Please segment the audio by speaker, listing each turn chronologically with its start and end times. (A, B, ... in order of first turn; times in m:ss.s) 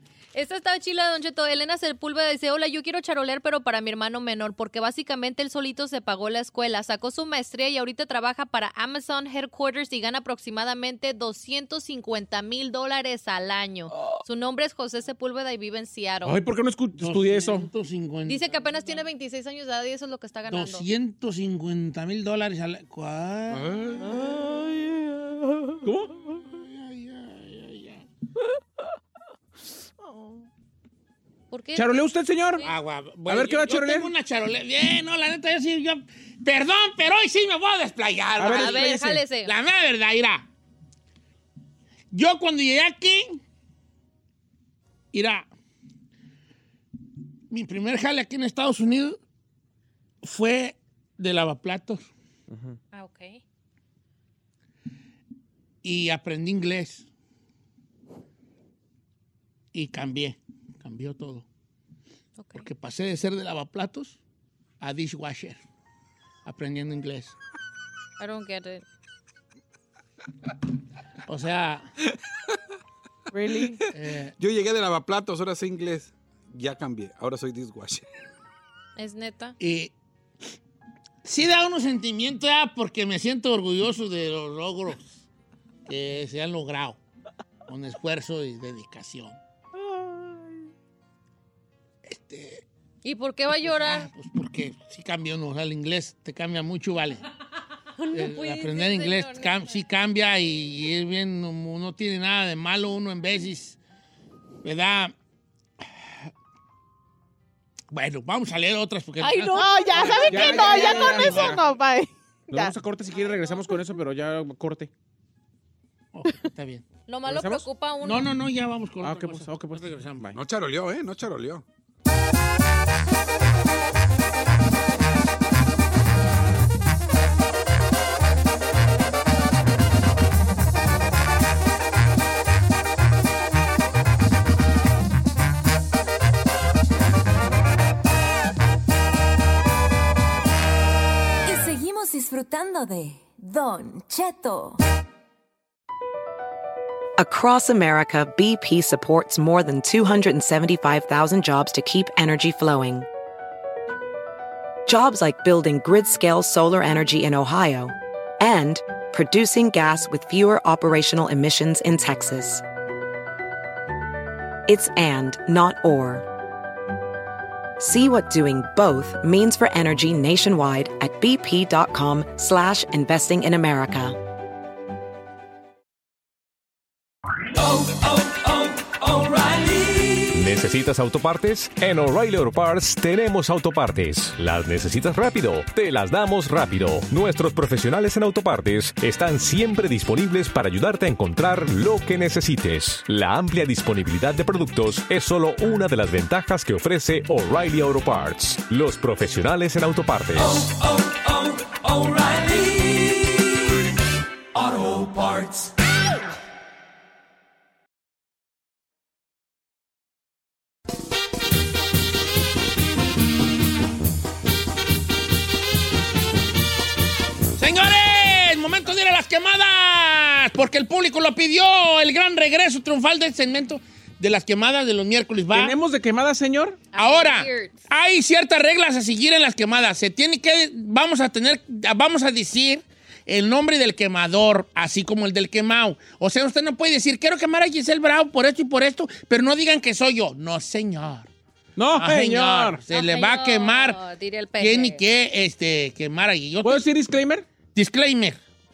0:00.3-0:16.4 A
0:16.2-0:17.7 B
0:17.0-0:18.6 C
0:18.3-0:20.8 A
0:20.5-0:23.6 C
0:23.5-0:24.3 D
0:24.0-0:25.8 E
0:25.8-0:26.2 B
0:26.3-0:28.0 C
0:30.0-0:30.4 E
0:31.5-0:32.0 A
0:31.7-0:32.6 B
0:32.6-0:38.9 C
0:33.2-0:34.1 B
0:38.4-0:39.2 B
0:38.5-0:39.5 A
0:39.4-0:40.4 C
0:42.1-0:43.4 C
0:45.1-0:45.5 C
0:47.5-0:49.2 C
0:50.2-0:52.1 C
0:52.5-0:52.8 B
0:52.9-0:53.4 A
0:55.8-0:57.1 C
0:59.7-1:01.4 C
1:02.4-1:02.6 A
1:02.5-1:04.2 C
1:04.8-1:05.6 C
1:06.4-1:07.3 C
1:08.2-1:08.8 A
1:11.2-1:11.9 C
1:13.3-1:13.8 E
1:13.9-1:14.3 C
1:14.4-1:18.0 D
1:19.0-1:19.6 A
1:19.6-1:19.9 C
1:21.2-1:25.1 C
1:25.9-1:27.0 C
1:27.7-1:29.4 C
1:29.8-1:30.5 E
1:32.0-1:32.6 C
1:33.0-1:34.1 A
1:33.6-1:37.2 C
1:38.0-1:39.7 A
1:38.1-1:43.8 C
1:44.6-1:45.1 C
1:47.9-1:51.6 C
1:49.2-1:52.7 E
1:50.0-1:51.6 B
1:52.5-1:54.9 B
1:56.1-1:56.8 C
1:57.1-1:58.3 A
1:57.2-1:57.6 B
1:58.0-2:00.3 C
1:59.0-2:00.4 B
2:00.3-2:01.6 D
2:21.4-2:24.8 F
2:27.2-2:33.1 G
2:34.8-2:42.6 G
2:44.7-2:46.2 G
2:47.8-2:54.2 G
2:59.1-3:20.8 H
3:22.0-3:22.4 H
3:24.7-3:25.5 H
3:37.6-3:45.8 C
3:45.5-3:46.8 B
3:46.9-3:47.7 A
3:47.0-4:01.3 C
4:01.8-4:02.8 B
4:01.9-4:04.0 C
4:02.9-4:05.0 A
4:04.6-4:06.8 C
4:06.6-4:07.5 B
4:07.7-4:08.4 C